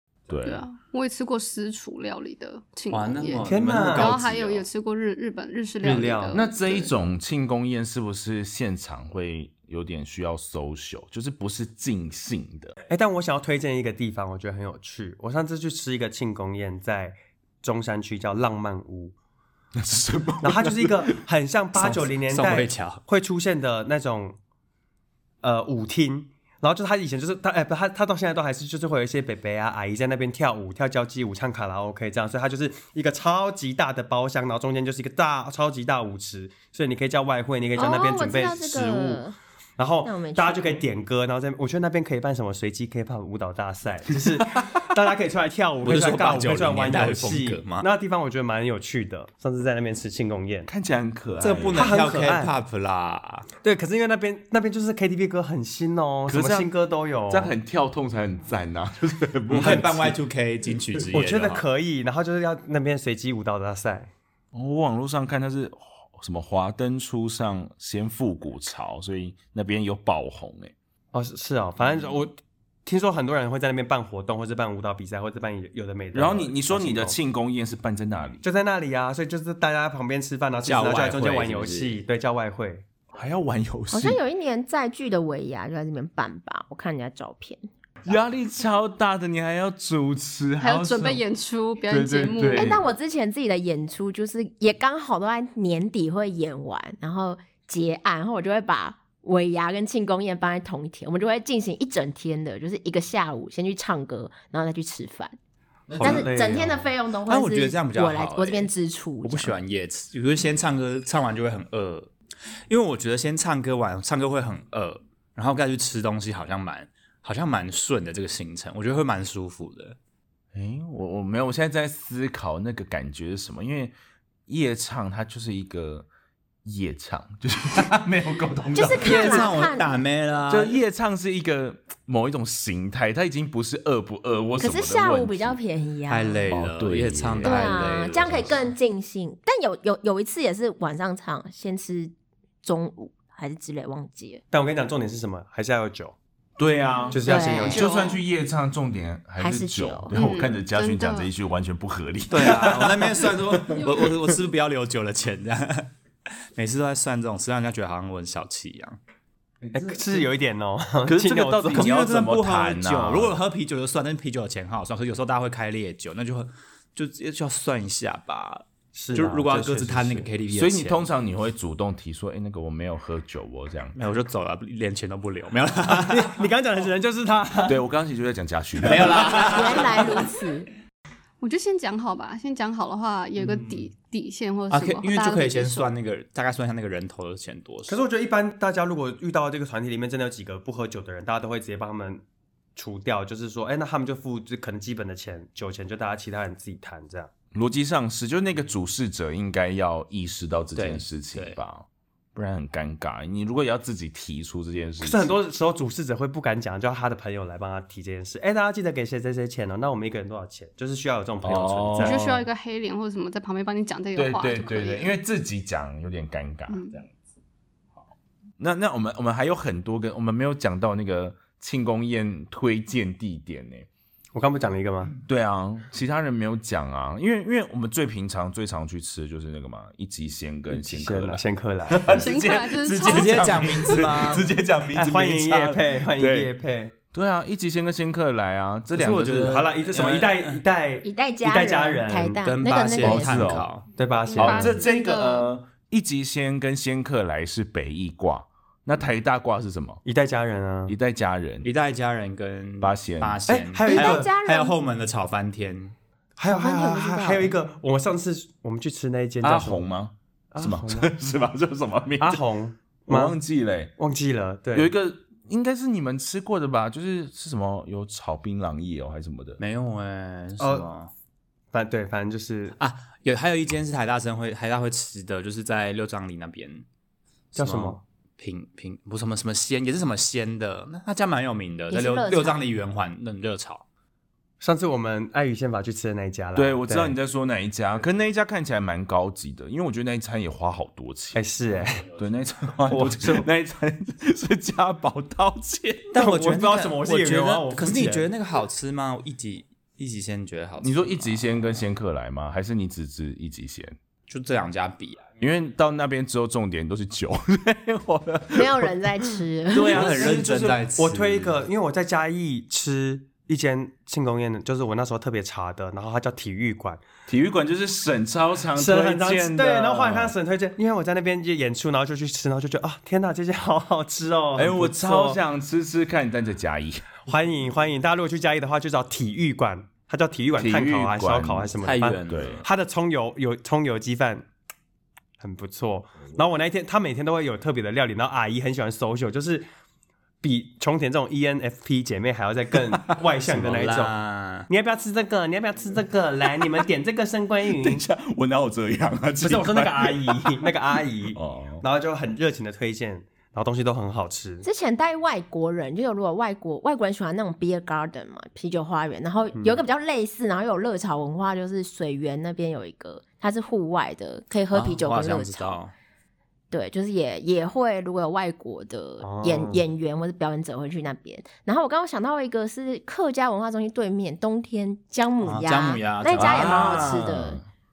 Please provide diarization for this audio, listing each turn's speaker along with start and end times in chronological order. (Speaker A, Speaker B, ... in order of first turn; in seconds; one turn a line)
Speaker A: 0.3-0.7
Speaker B: 0.4-6.9
Speaker C: 2.9-4.7
Speaker D: 3.5-4.2
Speaker D: 5.8-6.4
Speaker A: 6.3-12.8
Speaker D: 12.9-19.1
Speaker A: 19.8-21.1
Speaker D: 20.4-24.4
Speaker C: 21.8-23.0
Speaker D: 25.4-39.2
Speaker E: 37.8-39.4
Speaker D: 39.8-50.7
Speaker E: 40.0-40.8
Speaker C: 45.8-47.9
Speaker A: 50.7-52.0
Speaker C: 51.4-53.5
Speaker D: 51.7-52.5
Speaker D: 53.6-57.5
Speaker A: 56.3-56.7
Speaker A: 57.3-60.2
Speaker C: 59.5-61.7
Speaker D: 61.1-64.1
Speaker A: 64.5-70.7
Speaker D: 71.1-77.2
Speaker A: 76.1-78.4
Speaker D: 78.4-82.8
Speaker C: 80.6-82.0
Speaker A: 83.1-84.2
Speaker E: 83.9-87.7
Speaker A: 88.0-91.2
Speaker B: 90.6-92.8
Speaker A: 91.9-92.8
Speaker E: 92.5-105.3
Speaker A: 105.9-106.2
Speaker D: 106.0-106.8
Speaker E: 106.0-109.6
Speaker C: 107.2-108.7
Speaker C: 109.2-112.1
Speaker C: 112.7-120.0
Speaker A: 120.5-124.0
Speaker A: 124.5-126.1
Speaker A: 126.7-129.5
Speaker E: 128.7-129.9
Speaker C: 129.0-130.8
Speaker A: 130.5-135.6
Speaker E: 134.6-136.4
Speaker C: 136.1-138.6
Speaker A: 136.5-138.5
Speaker E: 137.4-144.4
Speaker D: 144.5-146.2
Speaker A: 146.6-154.1
Speaker D: 147.1-148.0
Speaker E: 147.2-147.9
Speaker E: 149.4-150.2
Speaker B: 150.1-151.3
Speaker C: 152.3-159.0
Speaker A: 159.6-160.2
Speaker D: 159.7-161.9
Speaker A: 161.1-163.4
Speaker C: 161.7-171.1
Speaker D: 168.9-170.3
Speaker A: 170.5-174.0
Speaker C: 173.9-176.4
Speaker D: 175.9-177.8
Speaker A: 177.7-179.5
Speaker C: 178.8-180.2
Speaker E: 179.4-180.7
Speaker B: 181.4-185.8
Speaker C: 183.4-183.8
Speaker C: 184.7-188.0
Speaker D: 187.9-192.2
Speaker D: 192.8-197.3
Speaker A: 197.5-205.3
Speaker C: 200.8-201.6
Speaker D: 205.0-212.3
Speaker A: 211.4-212.4
Speaker B: 212.0-215.1
Speaker A: 214.2-217.1
Speaker B: 216.7-217.0
Speaker A: 218.6-223.9
Speaker D: 224.3-225.1
Speaker A: 225.2-236.5
Speaker D: 230.7-232.2
Speaker B: 232.1-233.7
Speaker C: 233.0-234.5
Speaker D: 234.9-236.9
Speaker A: 237.1-239.7
Speaker C: 238.9-240.6
Speaker D: 239.4-242.4
Speaker E: 241.0-243.5
Speaker C: 242.4-243.9
Speaker A: 243.0-243.7
Speaker D: 244.0-244.8
Speaker B: 244.3-245.5
Speaker A: 244.3-250.0
Speaker D: 250.1-250.9
Speaker A: 250.9-251.7
Speaker C: 251.6-255.9
Speaker A: 252.8-253.5
Speaker D: 253.5-254.3
Speaker E: 253.9-254.8
Speaker D: 256.4-259.9
Speaker E: 256.5-257.6
Speaker A: 259.4-262.4
Speaker D: 260.5-261.1
Speaker D: 262.2-263.4
Speaker A: 263.1-263.9
Speaker D: 264.0-264.9
Speaker A: 264.8-269.6
Speaker C: 269.6-271.1
Speaker D: 270.6-270.9
Speaker D: 271.7-272.8
Speaker C: 272.8-276.9
Speaker C: 277.5-283.8
Speaker D: 277.6-278.0
Speaker E: 281.9-282.6
Speaker D: 284.6-287.2
Speaker A: 286.6-291.4
Speaker D: 291.4-292.1
Speaker A: 292.2-296.1
Speaker D: 292.9-293.4
Speaker C: 296.1-301.3
Speaker D: 296.1-298.3
Speaker A: 300.8-304.0
Speaker C: 304.3-305.3
Speaker A: 305.4-309.0
Speaker E: 308.5-310.4
Speaker A: 309.7-310.9
Speaker C: 309.9-311.6
Speaker D: 311.0-317.0
Speaker A: 317.3-320.4
Speaker D: 318.8-325.4
Speaker A: 324.6-327.0
Speaker D: 327.3-334.5
Speaker A: 330.6-331.7
Speaker C: 331.8-332.6
Speaker A: 332.3-332.6
Speaker D: 335.4-339.7
Speaker D: 340.4-344.1
Speaker C: 343.4-344.7
Speaker D: 344.7-348.0
Speaker A: 347.7-350.7
Speaker D: 349.4-354.7
Speaker A: 351.4-351.8
Speaker E: 354.6-365.8
Speaker C: 364.7-365.9
Speaker E: 366.7-377.6
Speaker D: 369.2-369.8
Speaker C: 375.4-377.3
Speaker A: 376.4-377.7